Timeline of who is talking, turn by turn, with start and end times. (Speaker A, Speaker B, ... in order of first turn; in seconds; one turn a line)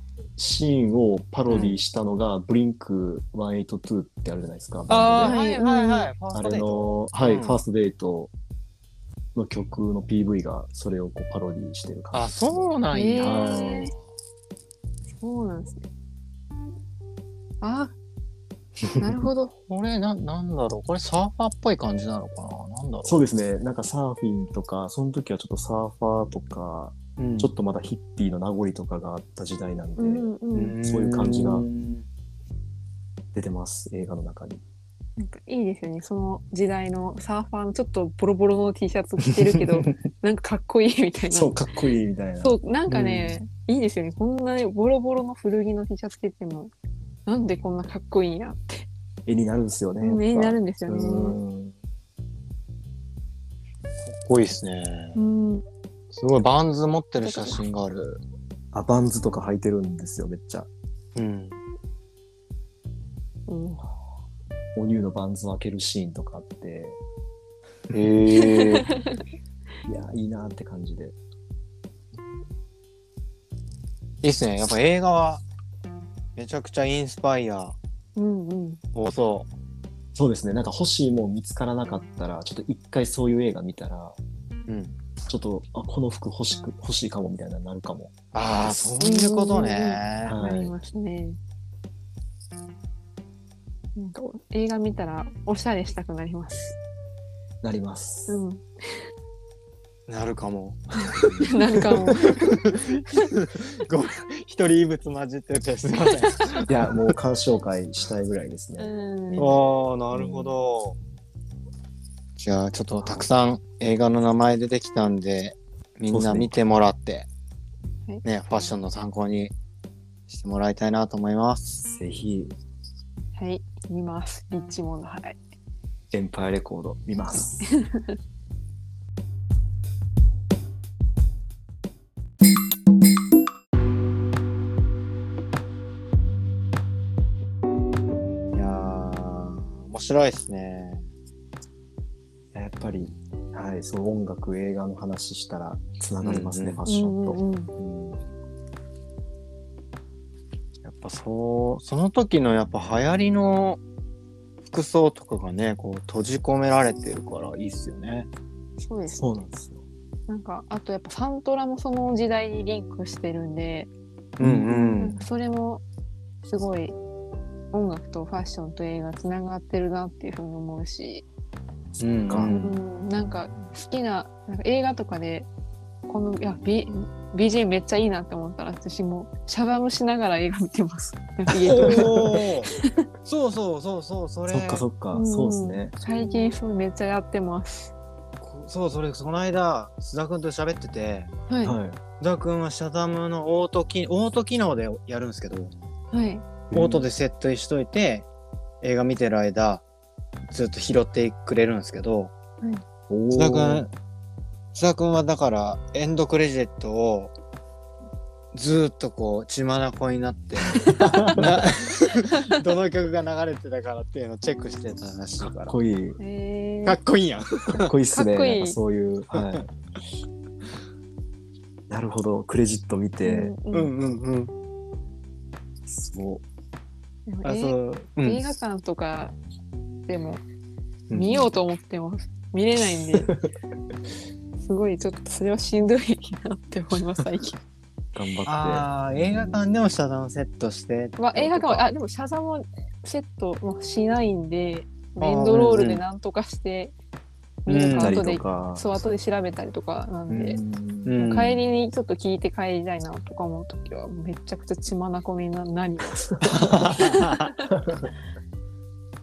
Speaker A: 0.4-5.4
Speaker B: 1.5-1.8
Speaker B: 4.9-7.6
Speaker C: 5.2-6.1
Speaker A: 6.3-8.3
Speaker A: 9.3-13.8
Speaker B: 12.1-14.0
Speaker C: 12.9-13.9
Speaker C: 15.2-15.8
Speaker C: 17.6-17.9
Speaker A: 18.9-19.2
Speaker C: 19.0-19.5
Speaker B: 19.7-23.2
Speaker A: 23.0-30.3
Speaker B: 27.2-27.5
Speaker C: 30.0-30.8
Speaker B: 30.5-32.0
Speaker A: 30.8-31.7
Speaker A: 33.3-34.6
Speaker C: 35.2-41.6
Speaker A: 39.2-39.9
Speaker A: 41.3-43.3
Speaker C: 42.4-46.7
Speaker B: 43.0-43.3
Speaker C: 47.2-48.9
Speaker A: 49.2-51.7
Speaker C: 50.0-51.4
Speaker B: 54.0-55.2
Speaker C: 55.1-55.6
Speaker B: 56.1-58.2
Speaker C: 57.2-57.6
Speaker A: 58.7-60.7
Speaker B: 61.1-61.6
Speaker C: 63.5-63.8
Speaker A: 64.8-67.0
Speaker B: 67.9-68.9
Speaker C: 68.4-69.2
Speaker A: 69.8-71.2
Speaker B: 74.2-75.4
Speaker B: 76.3-77.8
Speaker C: 78.2-78.8
Speaker B: 78.9-79.5
Speaker A: 80.1-84.2
Speaker B: 84.7-85.0
Speaker A: 85.3-89.0
Speaker B: 88.3-90.4
Speaker C: 89.0-91.4
Speaker A: 90.2-90.8
Speaker C: 93.9-96.8
Speaker A: 97.6-98.4
Speaker C: 98.3-98.6
Speaker B: 100.1-101.5
Speaker A: 101.2-101.5
Speaker C: 101.5-102.2
Speaker B: 102.2-106.8
Speaker A: 106.7-110.6
Speaker C: 108.8-109.5
Speaker B: 109.4-111.0
Speaker B: 112.4-117.3
Speaker A: 113.0-113.3
Speaker A: 116.1-116.6
Speaker B: 118.2-119.5
Speaker B: 120.3-121.8
Speaker A: 121.8-122.5
Speaker C: 123.3-125.4
Speaker A: 126.1-127.7
Speaker C: 127.9-128.1
Speaker B: 138.5-141.1
Speaker A: 142.5-148.2
Speaker B: 146.2-146.8
Speaker C: 146.9-147.7
Speaker B: 150.8-153.8
Speaker B: 154.6-158.3
Speaker C: 158.8-159.4
Speaker A: 159.1-159.8
Speaker C: 160.3-163.9
Speaker B: 164.4-165.2
Speaker A: 164.4-165.0
Speaker C: 164.9-165.8
Speaker C: 166.4-166.9
Speaker C: 167.7-171.2
Speaker A: 171.9-172.5
Speaker B: 172.0-172.8
Speaker C: 172.4-175.5
Speaker A: 173.2-173.7
Speaker C: 176.1-182.9
Speaker B: 181.6-182.7
Speaker A: 181.8-182.2
Speaker B: 183.2-184.8
Speaker A: 184.5-185.9
Speaker C: 185.1-187.9
Speaker B: 186.2-186.6
Speaker B: 188.4-191.3
Speaker C: 191.5-191.8
Speaker A: 191.6-192.0
Speaker B: 192.2-195.7
Speaker C: 196.1-196.4
Speaker A: 196.7-197.1
Speaker B: 196.7-198.3
Speaker B: 198.8-199.8
Speaker B: 200.5-202.3
Speaker A: 203.1-203.9
Speaker B: 203.3-203.9
Speaker B: 204.7-207.3
Speaker B: 208.5-215.8
Speaker A: 210.8-211.6
Speaker A: 215.4-216.2
Speaker C: 216.2-217.0
Speaker B: 216.8-217.9
Speaker A: 217.8-219.6
Speaker C: 218.1-218.8
Speaker B: 219.3-219.6
Speaker A: 221.9-223.6
Speaker C: 223.2-223.9
Speaker B: 223.7-224.5
Speaker A: 225.8-226.4
Speaker C: 227.3-229.3
Speaker B: 227.4-228.4
Speaker C: 230.1-230.4
Speaker A: 231.1-231.5
Speaker C: 231.1-233.3
Speaker A: 233.1-233.4
Speaker C: 234.6-237.6
Speaker A: 238.1-239.7
Speaker B: 238.4-241.9
Speaker C: 241.2-246.9
Speaker B: 245.2-246.0
Speaker C: 247.7-250.6
Speaker B: 247.7-248.2
Speaker A: 247.9-249.1
Speaker A: 250.3-251.2
Speaker B: 251.1-251.6
Speaker C: 251.2-256.3
Speaker B: 256.4-257.5
Speaker C: 257.4-257.7